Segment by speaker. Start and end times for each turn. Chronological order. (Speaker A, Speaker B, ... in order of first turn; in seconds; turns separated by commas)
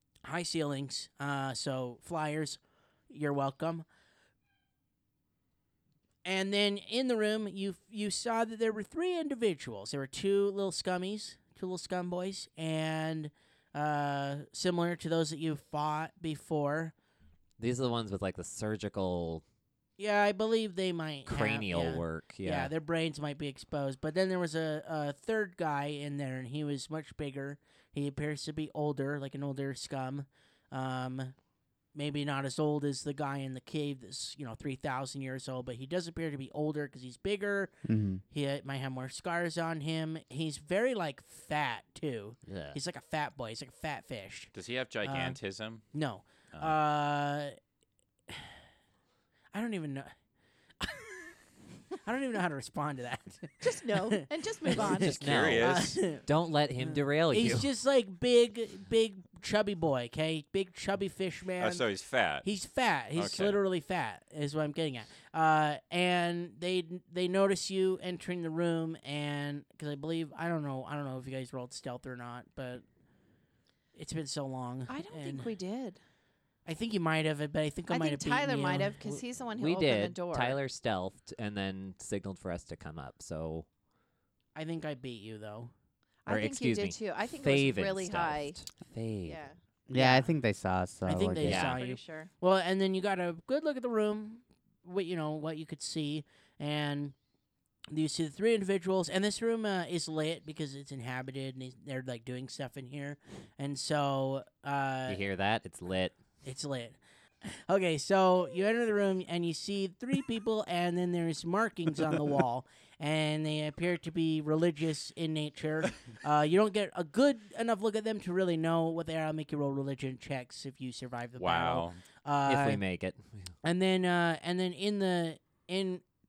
Speaker A: 0.2-3.9, Speaker A: 6.2-16.9, Speaker B: 17.6-19.4, Speaker A: 20.0-31.3, Speaker B: 21.3-22.7, Speaker A: 31.9-37.7, Speaker C: 37.9-38.2, Speaker A: 38.3-45.4, Speaker B: 42.5-42.8, Speaker D: 44.5-45.8, Speaker A: 45.9-47.6, Speaker D: 46.5-46.8, Speaker A: 48.3-48.5, Speaker A: 49.5-50.1, Speaker A: 50.8-51.3, Speaker A: 51.9-55.0, Speaker E: 53.6-55.3, Speaker B: 54.8-57.7, Speaker D: 54.9-56.0, Speaker A: 55.6-56.2, Speaker A: 57.3-61.9, Speaker D: 61.6-62.5, Speaker A: 62.4-72.8, Speaker D: 63.1-63.6, Speaker A: 74.0-75.5, Speaker E: 74.9-76.0, Speaker A: 76.7-79.1, Speaker E: 77.9-80.6, Speaker B: 79.5-83.7, Speaker A: 84.5-85.7, Speaker E: 86.2-88.6, Speaker B: 86.3-89.4, Speaker E: 89.3-89.5, Speaker C: 89.9-91.7, Speaker A: 89.9-90.3, Speaker A: 91.1-97.2, Speaker B: 91.5-91.8, Speaker E: 91.6-92.3, Speaker A: 97.9-105.2, Speaker B: 105.1-106.1, Speaker A: 106.4-122.8, Speaker D: 121.4-122.0, Speaker B: 122.5-123.5, Speaker A: 123.6-126.0